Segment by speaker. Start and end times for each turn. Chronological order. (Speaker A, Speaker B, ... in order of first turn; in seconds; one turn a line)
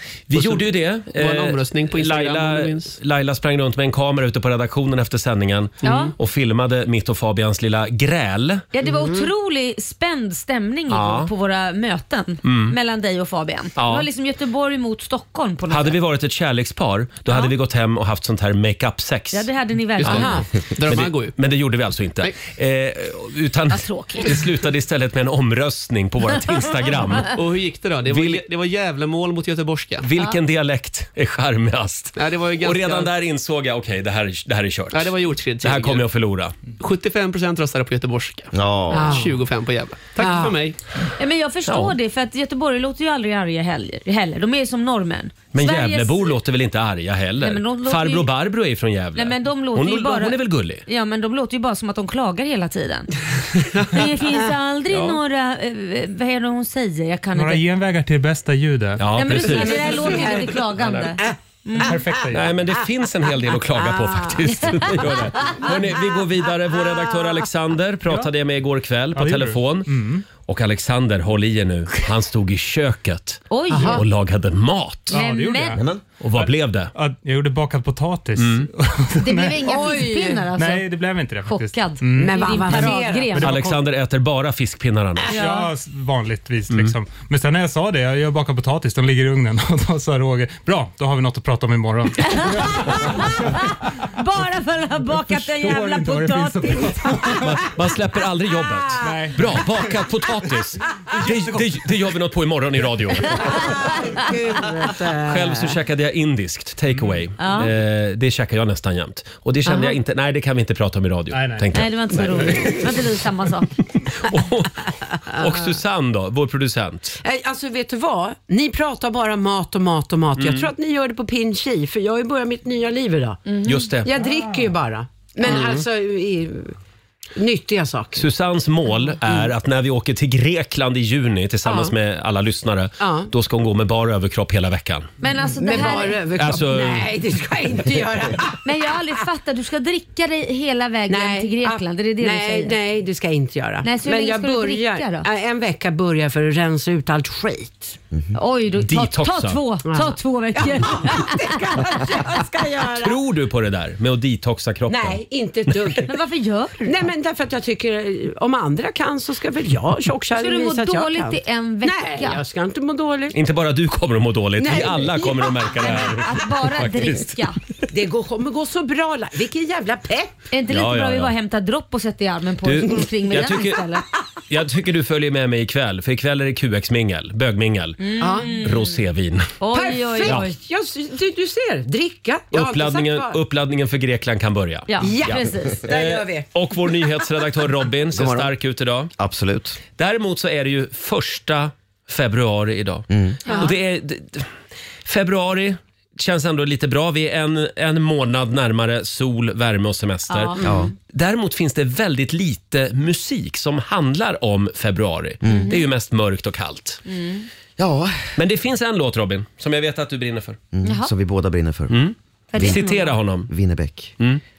Speaker A: 0.3-8.7
Speaker B: 0.3-3.0
Speaker C: 5.8-6.1
Speaker C: 8.7-16.0
Speaker D: 8.8-9.2
Speaker A: 10.9-11.3
Speaker A: 12.4-12.8
Speaker A: 13.8-14.1
Speaker A: 15.7-19.5
Speaker C: 17.3-17.5
Speaker C: 19.3-20.4
Speaker A: 20.0-20.3
Speaker D: 20.1-20.5
Speaker B: 20.8-21.4
Speaker A: 20.8-27.3
Speaker C: 23.7-24.4
Speaker B: 27.3-30.1
Speaker A: 28.1-28.4
Speaker A: 30.0-36.5
Speaker B: 32.2-33.1
Speaker B: 34.9-36.1
Speaker B: 36.8-40.8
Speaker E: 38.5-39.2
Speaker D: 38.9-39.3
Speaker D: 40.1-40.6
Speaker C: 41.2-46.4
Speaker A: 41.7-42.0
Speaker A: 45.5-50.8
Speaker C: 47.4-48.3
Speaker C: 49.1-53.2
Speaker C: 53.8-57.6
Speaker A: 54.9-55.2
Speaker F: 57.3-59.1
Speaker A: 59.0-61.1
Speaker C: 59.2-62.0
Speaker D: 59.4-60.6
Speaker F: 61.8-62.5
Speaker A: 62.3-75.2
Speaker C: 64.5-65.7
Speaker F: 69.2-70.3
Speaker C: 73.5-74.0
Speaker D: 73.8-74.0
Speaker F: 75.1-79.7
Speaker C: 75.1-75.8
Speaker A: 76.2-76.9
Speaker A: 78.4-78.7
Speaker C: 79.2-80.9
Speaker D: 79.7-80.4
Speaker F: 80.5-83.8
Speaker C: 81.4-83.5
Speaker D: 82.1-83.4
Speaker A: 83.4-85.3
Speaker C: 85.3-85.7
Speaker F: 85.3-93.7
Speaker A: 86.7-87.0
Speaker C: 92.2-97.4
Speaker F: 95.3-97.5
Speaker A: 97.4-103.7
Speaker F: 99.0-99.8
Speaker F: 101.1-101.7
Speaker C: 103.4-103.9
Speaker D: 104.2-105.6
Speaker A: 105.2-112.8
Speaker C: 107.4-107.7
Speaker D: 109.7-110.0
Speaker F: 111.3-111.7
Speaker C: 111.7-113.7
Speaker A: 114.3-117.2
Speaker D: 115.4-115.7
Speaker D: 117.2-126.8
Speaker A: 120.4-120.7
Speaker A: 123.6-124.1
Speaker A: 125.4-125.8
Speaker D: 127.4-128.3
Speaker A: 128.2-135.1
Speaker D: 131.7-131.9
Speaker D: 133.0-133.3
Speaker C: 135.2-136.2
Speaker D: 135.5-138.6
Speaker A: 136.3-137.1
Speaker C: 138.6-142.8
Speaker D: 141.1-148.0
Speaker C: 143.8-145.3
Speaker C: 148.3-152.2
Speaker A: 148.8-149.6
Speaker D: 149.8-153.2
Speaker A: 153.0-156.0
Speaker D: 154.9-156.0
Speaker C: 156.1-157.1
Speaker D: 156.8-163.3
Speaker C: 160.3-162.4
Speaker A: 163.3-167.4
Speaker D: 164.6-165.9
Speaker C: 165.8-167.6
Speaker D: 167.9-170.3
Speaker C: 170.5-174.0
Speaker A: 170.7-171.3
Speaker A: 172.6-173.9
Speaker A: 174.5-179.5
Speaker C: 178.0-179.0
Speaker D: 178.2-178.6
Speaker C: 179.6-180.6
Speaker D: 179.7-183.4
Speaker A: 182.5-189.1
Speaker C: 184.9-185.8
Speaker D: 185.0-186.5
Speaker E: 188.1-188.5
Speaker E: 189.2-189.8
Speaker A: 190.0-194.5
Speaker E: 193.1-193.4
Speaker C: 193.5-193.7
Speaker D: 193.5-193.7
Speaker A: 195.1-207.0
Speaker C: 200.3-200.6
Speaker E: 200.6-200.9
Speaker E: 205.4-205.7
Speaker C: 205.5-205.8
Speaker C: 207.1-207.5
Speaker E: 207.8-208.3
Speaker A: 208.4-210.6
Speaker E: 210.7-212.0
Speaker C: 210.8-211.1
Speaker A: 211.9-213.5
Speaker C: 212.5-213.2
Speaker E: 212.6-212.9
Speaker E: 213.5-214.1